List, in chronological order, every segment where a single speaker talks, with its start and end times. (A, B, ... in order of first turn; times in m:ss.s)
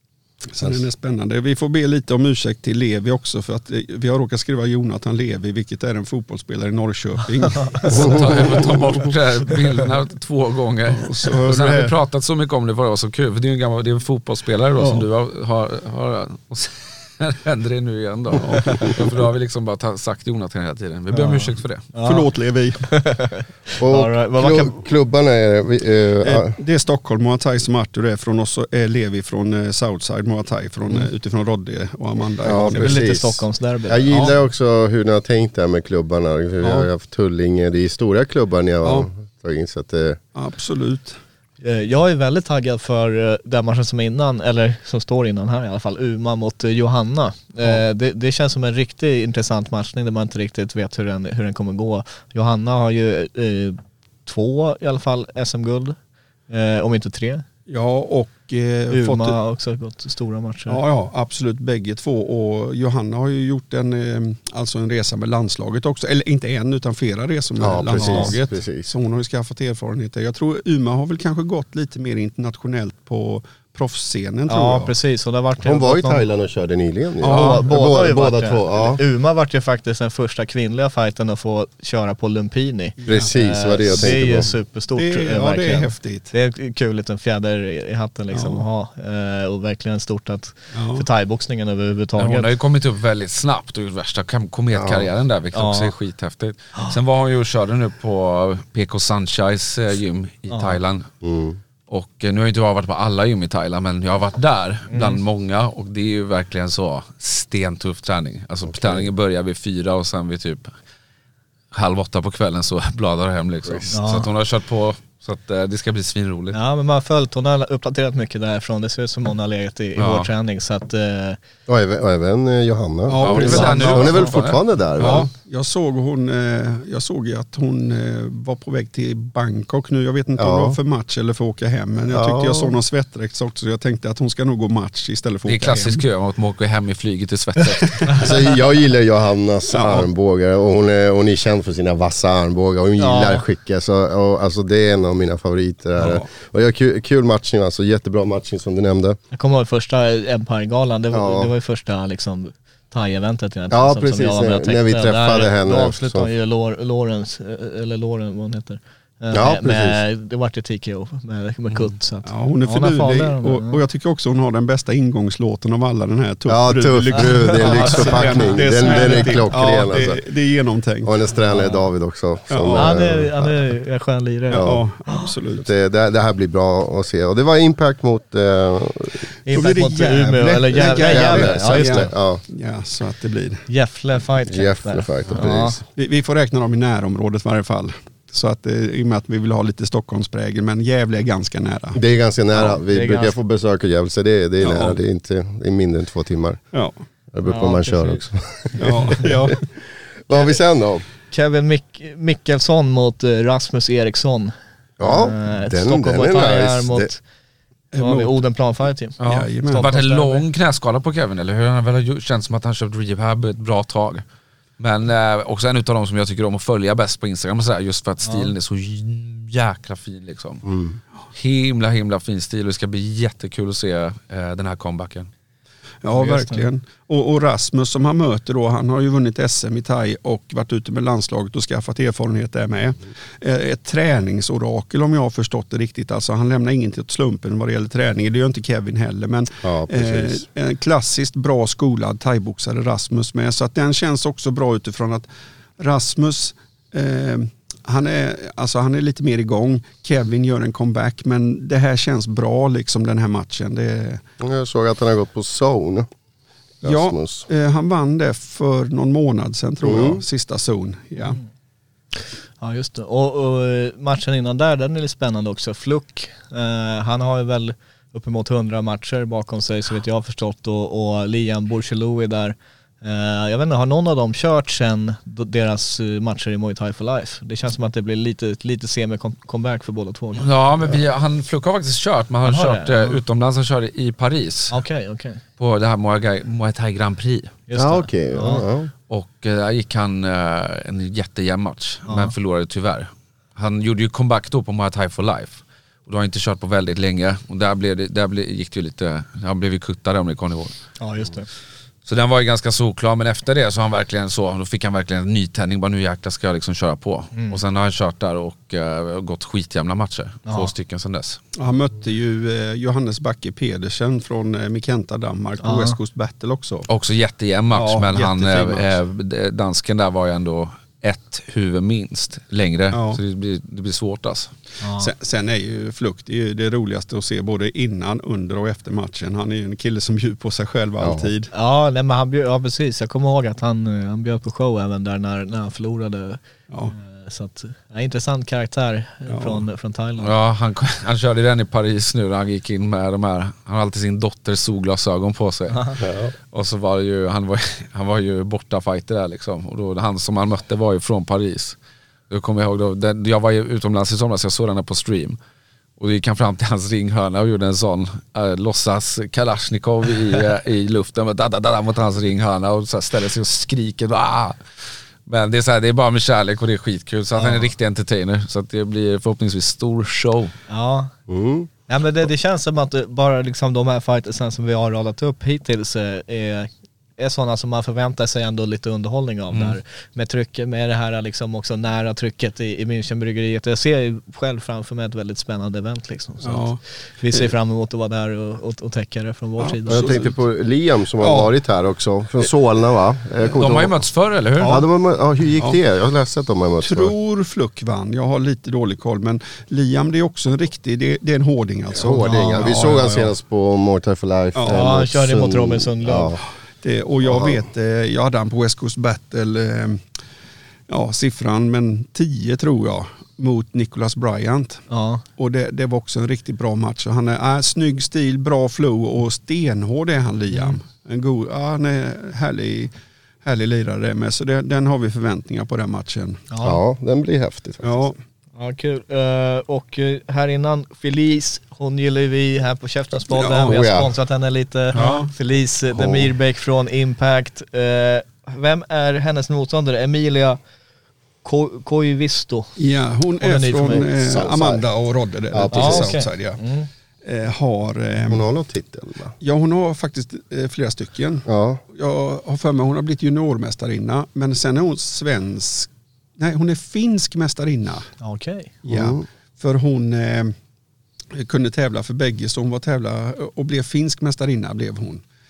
0:00.5-0:08.8 A
0:07.5-0:08.1 B
0:07.9-0:21.9 C
0:08.0-0:08.6 D
0:10.9-0:11.9 A
0:14.8-0:15.0 A
0:18.3-0:19.1 A
0:21.1-0:22.3 B
0:22.0-0:22.8 A
0:22.8-0:24.8 B
0:23.8-0:26.6 D
0:26.2-0:33.0 A
0:32.4-0:40.2 D
0:32.5-0:34.3 B
0:34.1-0:34.3 A
0:36.6-0:36.9 A
0:38.8-0:39.1 A
0:40.3-0:41.2 A
0:41.6-0:56.0 B
0:56.5-0:57.4 B
0:57.7-0:59.4 A
0:58.9-1:00.8 B
1:00.7-1:14.9 A
1:07.6-1:08.9 D
1:08.0-1:08.4 B
1:14.5-1:16.2 B
1:15.6-1:19.0 D
1:17.2-1:17.7 A
1:17.2-1:32.5 B
1:23.0-1:23.3 A
1:23.0-1:24.5 D
1:23.9-1:24.4 A
1:24.9-1:26.3 A
1:28.3-1:28.6 A
1:30.7-1:31.0 A
1:32.2-1:41.1 C
1:34.7-1:35.1 D
1:35.5-1:35.9 B
1:40.5-1:40.8 B
1:41.2-1:41.6 D
1:41.9-1:50.7 C
1:44.9-1:45.2 B
1:48.6-1:49.1 D
1:51.7-1:56.6 C
1:53.9-1:54.3 B
1:56.5-2:01.4 B
2:00.0-2:00.3 C
2:01.7-2:05.3 D
2:03.1-2:04.2 A
2:03.2-2:04.6 C
2:03.4-2:04.3 B
2:05.0-2:16.0 A
2:10.4-2:10.8 D
2:12.0-2:12.8 D
2:15.4-2:18.3 C
2:17.6-2:18.3 A
2:18.2-2:29.2 D
2:19.7-2:20.1 A
2:23.0-2:23.4 B
2:26.0-2:26.3 A
2:29.3-2:43.8 B
2:31.1-2:31.5 D
2:33.7-2:36.3 D
2:39.3-2:40.0 D
2:42.2-2:51.1 A
2:46.5-2:50.2 D
2:47.6-2:49.4 B
2:51.0-2:53.5 D
2:51.5-2:51.8 B
2:52.5-2:53.0 A
2:52.7-2:54.7 B
2:54.5-2:55.6 A
2:54.5-2:54.8 D
2:55.5-2:59.3 D
2:59.4-3:02.1 B
2:59.5-3:03.6 A
3:00.7-3:02.4 D
3:03.7-3:05.8 B
3:04.5-3:05.8 D
3:05.9-3:12.0 A
3:11.9-3:16.6 D
3:12.5-3:13.4 B
3:14.6-3:15.0 A
3:17.3-3:19.6 D
3:17.5-3:18.2 B
3:18.8-3:19.6 A
3:20.2-3:21.0 D
3:21.3-3:27.2 B
3:25.0-3:27.1 D
3:27.9-3:28.4 A
3:28.0-3:30.4 B
3:29.2-3:34.2 C
3:29.2-3:29.8 A
3:34.8-3:40.6 C
3:38.2-3:38.5 B
3:40.6-3:41.0 D
3:41.3-3:45.3 C
3:46.0-4:05.3 A
3:46.1-3:46.7 B
3:59.6-4:00.4 D
4:05.8-4:14.2 A
4:14.4-4:16.1 D
4:16.8-4:17.5 D
4:16.8-4:21.4 A
4:19.8-4:20.2 D
4:22.2-4:40.5 B
4:40.3-4:44.8 C
4:42.4-4:43.2 B
4:44.7-4:45.4 B
4:45.6-4:47.5 C
4:47.7-4:48.6 B
4:47.7-4:48.9 D
4:49.1-5:00.8 C
4:52.0-4:52.3 B
5:01.0-5:01.5 B
5:02.0-5:11.4 C
5:10.4-5:10.7 B
5:11.6-5:16.9 A
5:15.6-5:16.0 B
5:16.9-5:24.5 C
5:17.7-5:19.0 A
5:22.9-5:23.2 A
5:24.8-5:25.1 B
5:25.0-5:31.5 A
5:31.0-5:31.3 D
5:31.5-5:40.3 B
5:39.3-5:39.6 A
5:40.2-5:51.8 C
5:45.7-5:46.0 B
5:46.0-5:46.3 D
5:52.3-5:55.4 C
5:56.0-6:04.6 C
6:05.2-6:10.5 C
6:07.4-6:07.7 B
6:10.7-6:11.1 B
6:11.3-6:11.7 D
6:11.9-6:26.7 B
6:19.5-6:19.8 C
6:26.4-6:26.8 A
6:27.2-6:30.2 B
6:29.6-6:30.3 A
6:29.9-6:34.0 D
6:31.2-6:31.5 A
6:33.6-6:34.8 C
6:34.6-6:34.8 A
6:34.6-6:37.1 D
6:36.8-6:43.3 A
6:41.9-6:46.4 D
6:44.5-6:44.8 A
6:44.7-6:46.4 B
6:46.8-6:50.0 A
6:47.2-6:47.6 D
6:50.9-6:54.8 A
6:54.9-6:55.2 B
6:55.4-7:02.9 A
7:00.5-7:00.8 B
7:03.4-7:06.4 A
7:06.5-7:06.8 B
7:06.6-7:08.0 D
7:07.8-7:08.2 A
7:08.6-7:20.6 B
7:13.3-7:13.8 A
7:13.6-7:14.1 D
7:15.0-7:15.2 C
7:15.0-7:15.3 A
7:21.4-7:22.8 B
7:22.8-7:26.6 A
7:23.4-7:24.1 B
7:23.9-7:24.8 D
7:25.5-7:26.2 D
7:25.7-7:26.9 B
7:27.2-7:28.4 A
7:28.2-7:29.4 D
7:29.4-7:38.1 A
7:31.4-7:31.8 D
7:38.2-7:38.7 B
7:38.8-7:40.5 A
7:38.9-7:39.2 D
7:41.3-7:45.2 A